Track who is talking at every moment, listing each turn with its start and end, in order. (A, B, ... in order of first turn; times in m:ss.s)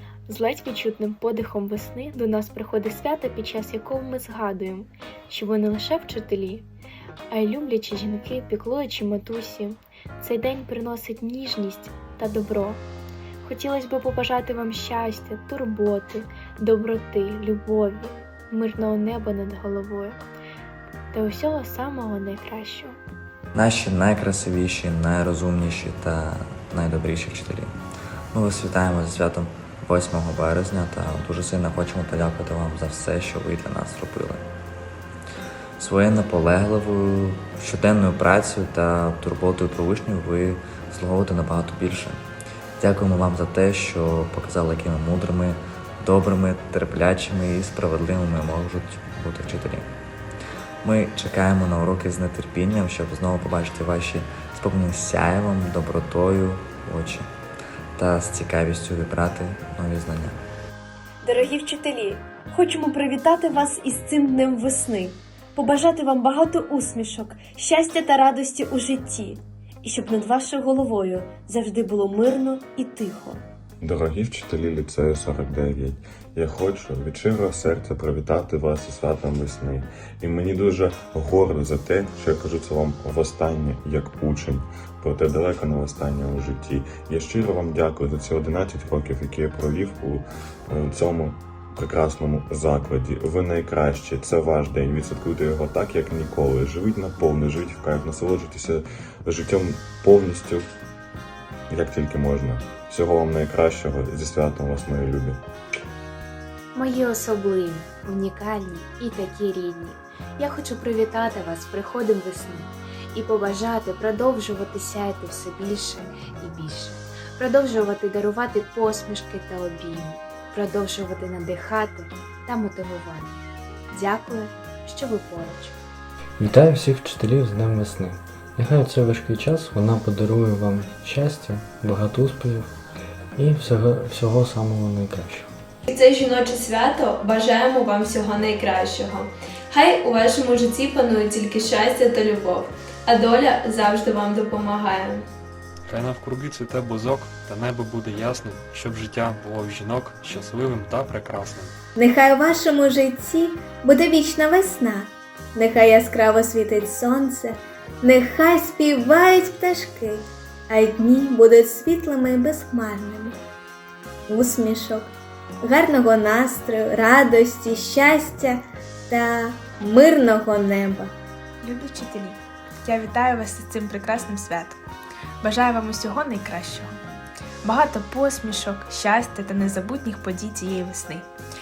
0:00.3-0:06.7 A
0:07.3-0:12.8 A
0:13.4-0:20.2 A
0:21.1-0:23.0 A
0:23.5-0:27.8 B
0:28.3-0:34.4 B
0:35.8-0:42.2 B
0:42.8-0:49.9 B
0:50.8-0:57.3 B
0:58.0-1:00.4 B
1:01.2-1:13.4 C
1:13.8-1:40.7 D
1:41.7-1:45.4 D
1:51.7-1:52.1 E
1:53.3-1:54.2 E
1:54.8-1:55.9 E
1:57.4-1:59.5 E
2:00.6-2:01.9 E
2:02.5-2:03.2 E
2:03.9-2:04.4 E
2:05.0-2:05.5 E
2:06.4-2:12.8 F
2:13.4-2:15.5 F
2:15.9-2:25.2 G
2:25.9-2:31.7 H
2:32.0-2:43.4 I
2:44.3-2:51.2 I
2:51.6-2:54.8 J
2:55.4-2:56.9 J
2:57.6-3:01.3 J